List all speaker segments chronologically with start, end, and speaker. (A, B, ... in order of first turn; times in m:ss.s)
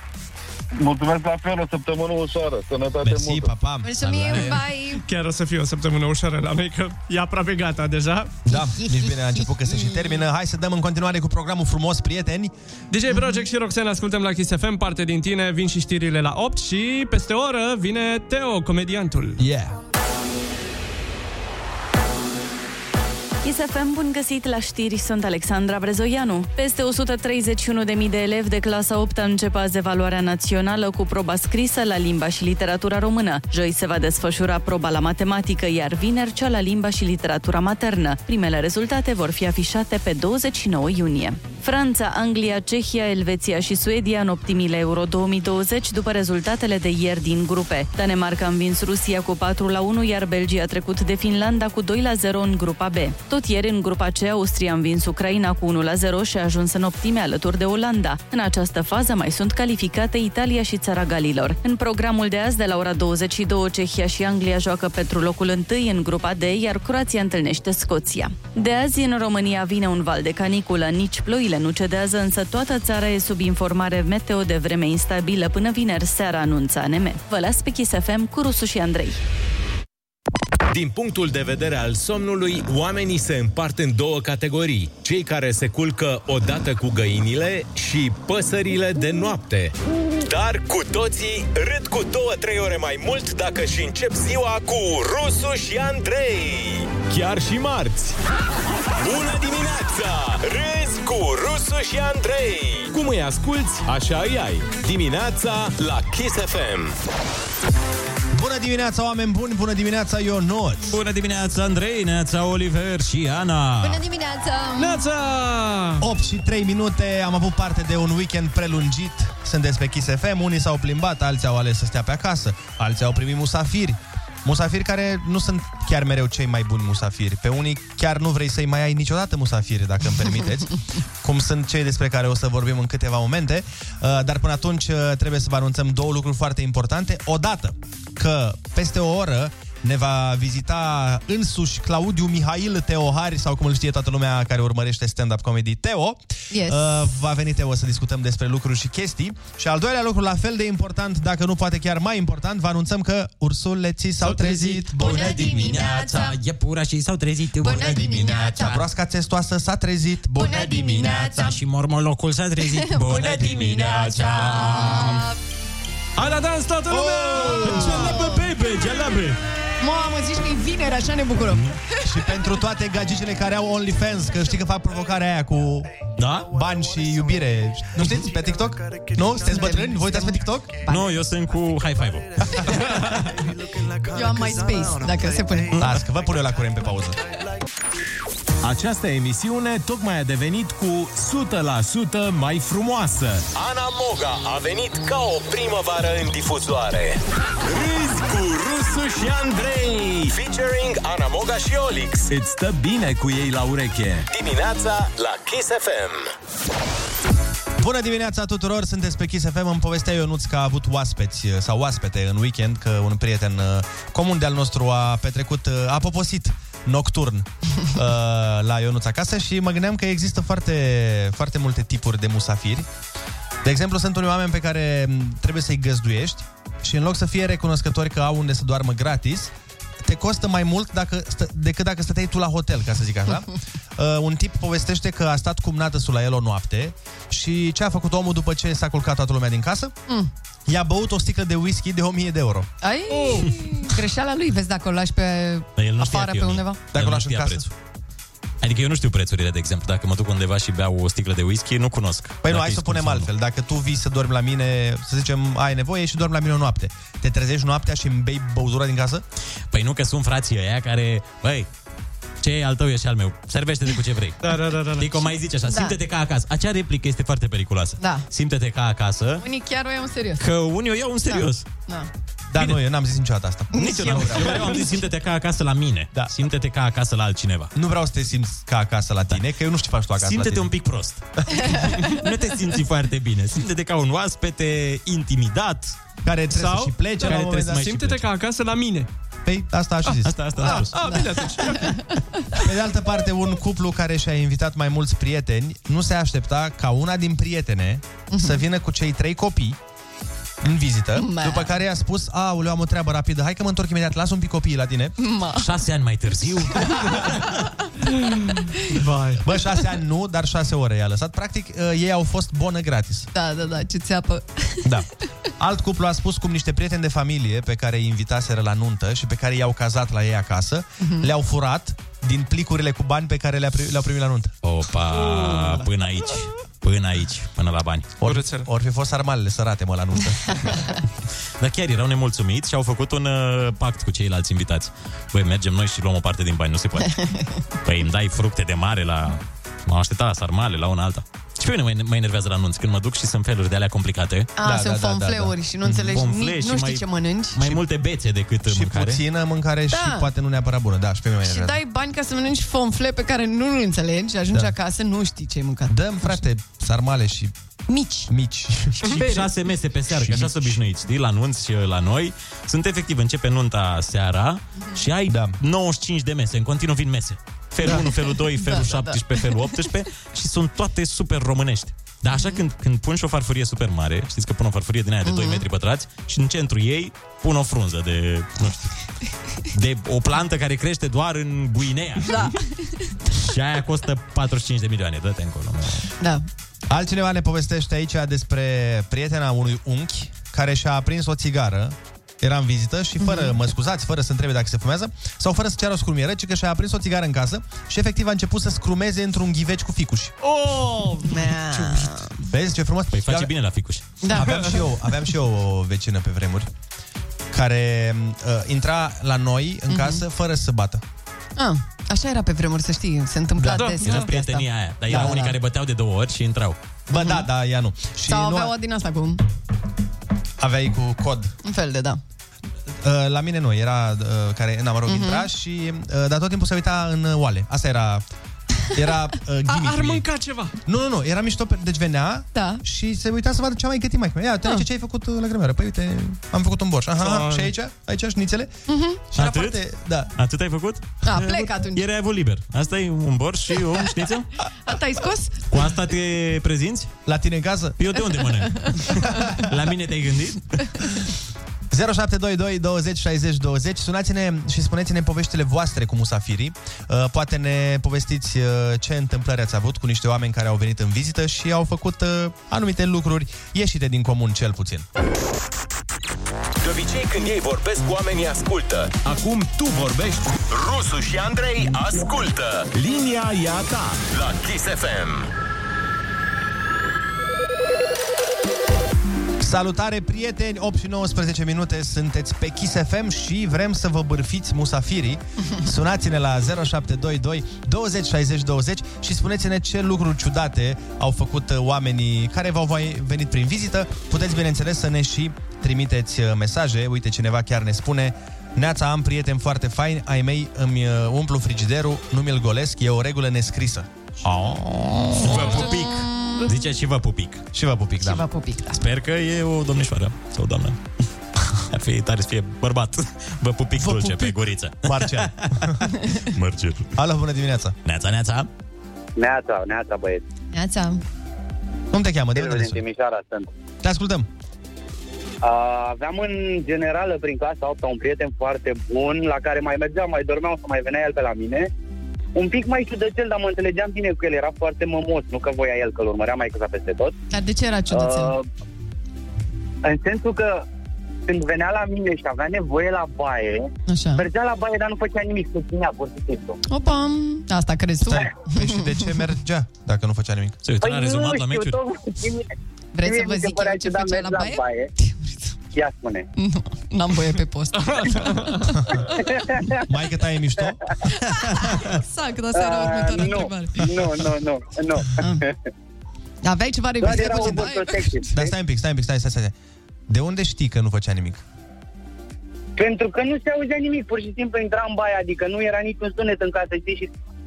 0:00.8-0:03.5 A
0:03.0-0:03.9 B
0:03.8-0:05.0 C
0:04.0-0:04.6 D
0:05.0-0:08.4 E
0:08.4-0:12.5 B
0:08.5-0:10.2 C
0:12.9-0:19.4 E
0:13.1-0:13.4 C
0:19.4-0:19.8 B
0:23.4-1:19.2 F
1:20.7-1:38.2 G
1:39.0-1:46.9 G
1:48.3-1:51.0 B
1:50.8-1:54.0 D
1:53.8-1:55.0 C
1:54.8-1:56.0 E
1:56.0-2:35.6 B
2:26.5-2:27.0 C
2:34.2-2:38.8 D
2:34.9-2:36.4 C
2:37.6-2:38.8 C
2:38.6-2:41.5 B
2:40.3-2:41.6 C
2:40.4-2:45.3 D
2:42.6-2:45.4 C
2:46.2-2:47.6 E
2:46.9-2:48.2 B
2:47.3-2:48.5 C
2:47.4-2:49.4 D
2:49.8-2:52.4 C
2:52.0-2:55.9 B
2:56.2-2:56.5 D
2:56.4-3:00.8 B
2:59.4-3:01.2 C
3:00.9-3:03.0 D
3:04.1-3:05.7 C
3:05.7-3:06.0 D
3:05.8-3:07.2 B
3:08.6-3:26.3 G
3:27.8-3:42.9 B
3:43.6-3:49.5 B
3:50.0-4:00.0 B
4:00.7-4:02.7 B
4:02.8-4:06.8 C
4:03.1-4:03.5 E
4:05.8-4:07.7 D
4:06.9-4:07.7 B
4:08.6-4:13.3 D
4:12.4-4:19.2 B
4:19.7-4:21.7 D
4:22.4-4:29.4 D
4:24.4-4:25.1 E
4:25.6-4:26.0 C
4:28.0-4:28.2 C
4:29.4-4:30.4 C
4:30.4-4:31.7 D
4:31.2-4:32.1 C
4:32.5-4:34.8 B
4:33.7-4:35.0 C
4:33.7-4:37.7 D
4:37.7-4:40.7 B
4:40.2-4:46.0 D
4:41.6-4:42.2 C
4:46.2-4:48.0 B
4:46.5-4:49.1 E
4:47.2-4:48.2 D
4:49.4-4:50.9 B
4:50.2-4:51.2 D
4:50.7-4:52.0 E
4:50.7-4:52.0 C
4:52.6-4:59.8 B
4:58.3-4:58.6 C
5:00.6-5:05.1 B
5:01.1-5:01.7 C
5:05.2-5:05.7 C
5:05.5-5:07.6 D
5:08.9-5:09.4 E
5:09.4-5:13.3 B
5:13.3-5:14.9 C
5:15.6-5:24.5 B
5:21.0-5:21.3 C
5:24.6-5:28.2 D
5:25.4-5:25.7 E
5:28.2-5:30.7 B
5:28.2-5:28.7 E
5:31.6-5:37.2 D
5:37.0-5:37.5 C
5:37.8-5:44.5 D
5:44.6-5:47.8 C
5:44.6-5:45.5 B
5:45.8-5:49.2 D
5:48.7-5:51.8 B
5:49.9-5:50.3 C
5:51.4-5:56.4 C
5:55.9-5:57.5 B
5:57.9-5:58.3 C
5:58.3-5:59.2 B
5:59.0-6:18.9 D
5:59.1-5:59.4 E
6:00.1-6:00.8 B
6:05.3-6:05.6 B
6:07.9-6:09.8 C
6:12.3-6:12.6 C
6:15.2-6:15.6 C
6:19.7-6:22.6 D
6:22.2-6:23.2 C
6:23.4-6:26.1 D
6:26.2-6:26.4 C
6:26.9-6:40.3 B
6:33.2-6:33.5 C
6:40.4-6:42.0 E
6:41.2-6:42.4 C
6:42.5-6:43.5 B
6:43.1-6:44.1 D
6:44.2-6:44.9 C
6:44.3-6:46.7 B
6:47.5-6:51.0 B
6:49.9-6:50.2 C
6:51.6-6:55.5 C
6:53.6-6:53.9 B
6:53.7-6:54.3 E
6:54.0-6:56.8 D
6:55.1-6:55.4 B
6:57.1-6:58.7 B
6:57.1-6:57.5 C
6:58.2-6:59.4 C
7:00.6-7:01.5 B
7:01.6-7:02.2 C
7:03.0-7:08.2 B
7:05.0-7:05.5 C
7:08.9-7:10.2 B
7:09.7-7:10.7 E
7:10.8-7:18.7 B
7:12.5-7:12.8 C
7:17.2-7:17.7 E
7:18.9-7:19.2 C
7:19.3-7:20.3 B
7:19.3-7:24.5 D
7:21.2-7:22.0 C
7:24.8-7:25.7 C
7:25.7-7:27.1 D
7:27.3-7:28.1 B
7:28.0-7:30.8 D
7:28.5-7:28.9 C
7:31.9-7:45.0 B
7:46.8-7:55.5 G
7:59.6-8:24.1 B
8:24.4-8:27.6 D
8:25.7-8:26.7 C
8:27.7-8:28.4 B
8:28.2-8:29.0 C
8:28.9-8:31.0 D
8:31.8-8:37.1 D
8:34.0-8:36.1 B
8:37.2-8:38.0 B
8:38.0-8:38.7 D
8:39.4-8:40.4 H
8:40.7-8:41.2 C
8:42.1-8:43.0 B
8:42.5-8:43.7 H
8:44.0-8:44.5 B
8:45.6-8:51.9 H
8:52.6-8:57.3 H
8:57.5-8:58.5 C
8:58.1-8:58.6 H
9:00.0-9:00.8 H
9:01.4-9:06.8 H
9:04.1-9:04.4 C
9:06.9-9:09.4 C
9:08.2-9:10.8 B
9:10.8-9:12.0 D
9:11.0-9:12.7 H
9:13.1-9:15.5 C
9:13.2-9:15.1 H
9:15.9-9:16.5 H
9:16.6-9:19.3 C
9:17.9-9:18.9 E
9:19.4-9:20.0 H
9:20.0-9:21.0 B
9:21.3-9:24.1 C
9:22.7-9:25.7 H
9:26.6-9:28.3 C
9:27.2-9:28.7 H
9:27.2-9:28.0 B
9:28.5-9:29.7 B
9:30.3-9:31.6 B
9:33.0-9:37.3 H